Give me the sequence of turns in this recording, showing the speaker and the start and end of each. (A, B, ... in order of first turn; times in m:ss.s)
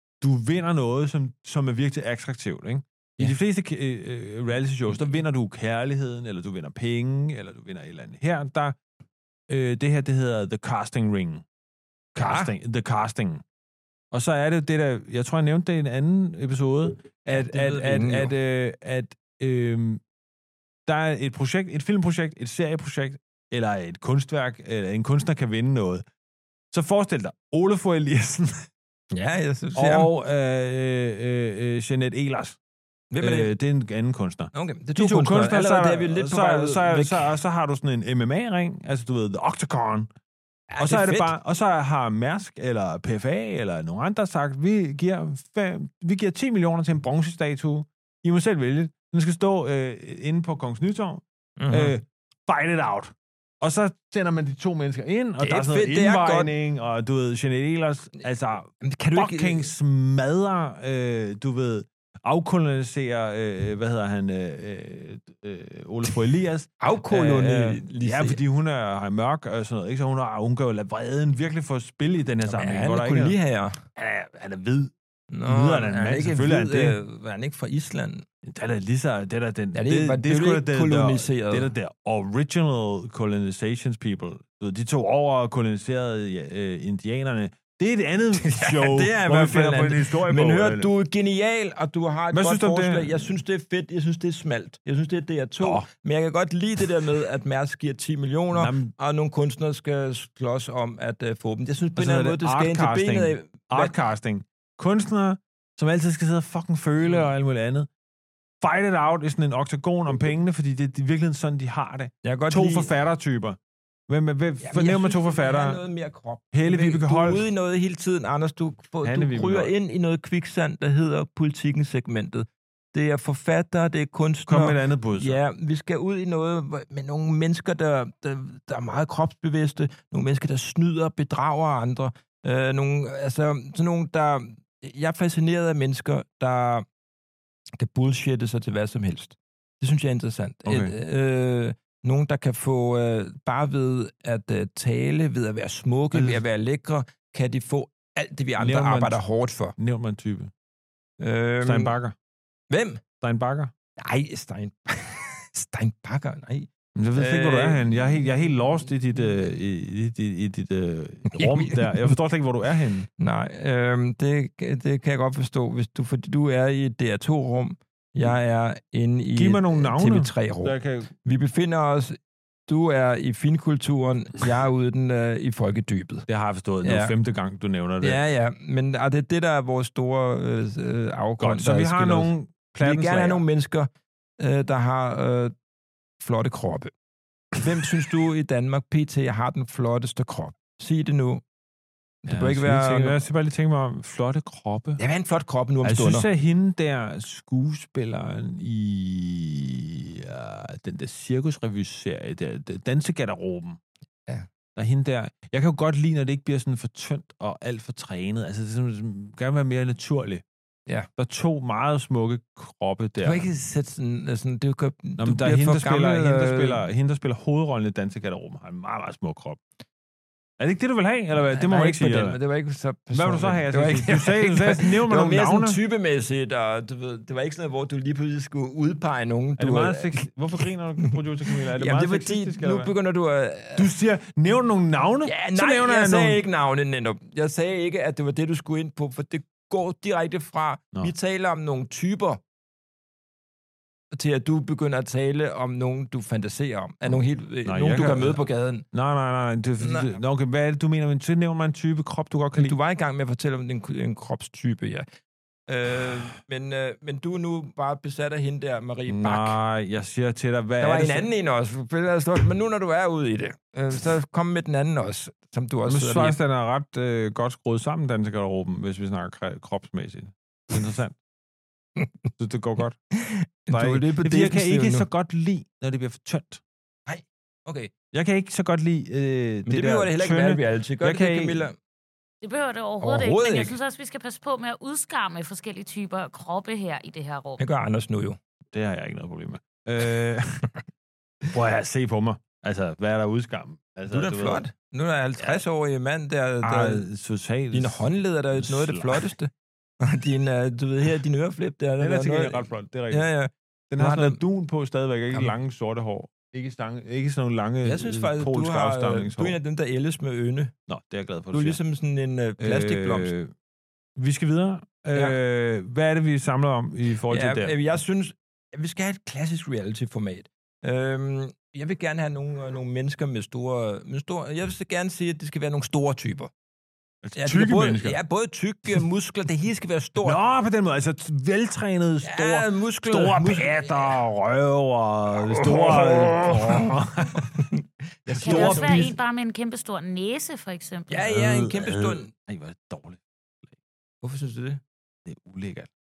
0:00.2-0:08.8 A
0:09.5-0:11.4 A
0:12.2-0:12.5 B
0:12.2-0:13.4 A
0:14.1-0:20.0 A
0:17.3-0:18.3 B
0:20.9-0:26.0 A
0:26.7-0:28.7 A
0:29.1-0:30.1 B
0:29.8-0:32.6 A
0:33.1-0:33.5 B
0:33.2-0:40.1 A
0:34.5-0:37.3 B
0:40.7-0:41.3 B
0:40.8-1:13.4 A
0:51.6-0:51.9 B
0:55.4-0:56.5 B
0:58.8-0:59.7 B
1:06.8-1:08.4 B
1:12.4-1:13.8 B
1:14.0-1:14.9 A
1:15.3-1:18.2 B
1:15.4-1:17.0 A
1:18.4-1:30.9 A
1:19.7-1:21.7 B
1:28.4-1:44.0 B
1:32.3-1:33.4 A
1:38.5-1:38.9 A
1:42.0-1:47.9 A
1:48.6-1:53.6 A
1:52.2-1:52.9 B
1:54.1-1:55.8 A
1:54.6-2:16.9 B
1:56.5-1:57.5 A
1:59.0-1:59.7 A
2:04.5-2:05.4 A
2:17.8-2:29.8 B
2:20.7-2:20.9 A
2:26.1-2:26.4 A
2:28.6-2:29.2 A
2:29.8-2:30.5 A
2:31.2-2:31.9 B
2:31.6-2:32.2 A
2:32.7-2:33.0 B
2:33.2-2:33.7 A
2:34.0-2:37.9 B
2:37.0-2:43.1 A
2:41.3-2:42.2 B
2:43.2-2:56.3 B
2:49.4-2:51.1 A
2:56.3-2:58.2 A
2:56.8-2:57.1 B
2:58.0-3:05.5 B
3:01.4-3:03.4 A
3:06.2-3:06.9 B
3:07.6-3:11.4 B
3:12.2-3:13.2 B
3:12.3-3:15.0 A
3:15.0-3:16.3 B
3:15.8-3:23.8 A
3:24.8-3:30.4 A
3:31.2-3:33.5 A
3:33.2-3:36.8 B
3:35.2-3:39.6 A
3:40.6-3:42.4 A
3:41.3-3:50.1 B
3:43.1-3:45.8 A
3:49.6-3:52.9 A
3:51.0-3:53.9 B
3:53.8-3:56.4 A
3:55.2-4:02.4 B
4:04.1-4:08.9 B
4:07.1-4:08.4 A
4:08.9-4:12.8 A
4:09.8-4:10.2 B
4:12.6-4:15.1 B
4:15.7-4:19.6 B
4:19.1-4:21.3 A
4:20.8-4:26.4 B
4:25.9-4:31.2 A
4:32.4-4:33.0 A
4:33.2-4:35.1 B
4:33.7-4:36.6 A
4:37.1-4:37.9 B
4:38.1-4:41.6 A
4:39.7-4:41.8 B
4:42.4-4:47.6 C
4:43.0-4:43.8 B
4:47.6-4:48.4 B
4:48.7-4:50.7 A
4:51.5-4:54.7 A
4:54.1-4:57.1 B
4:56.6-4:59.3 A
4:57.7-5:04.4 B
5:02.0-5:03.3 A
5:03.9-5:09.6 A
5:07.8-5:10.7 B
5:10.9-5:11.8 A
5:11.5-5:13.3 B
5:12.6-5:13.5 A
5:14.2-5:17.8 A
5:17.3-5:26.5 B
5:27.2-5:28.2 A
5:27.4-5:30.4 B
5:30.2-5:37.6 A
5:32.2-5:34.2 B
5:35.4-5:39.1 B
5:38.3-5:39.1 A
5:38.4-5:41.3 C
5:41.1-5:42.3 B
5:41.3-5:43.7 A
5:44.2-5:44.8 B
5:45.3-5:45.9 A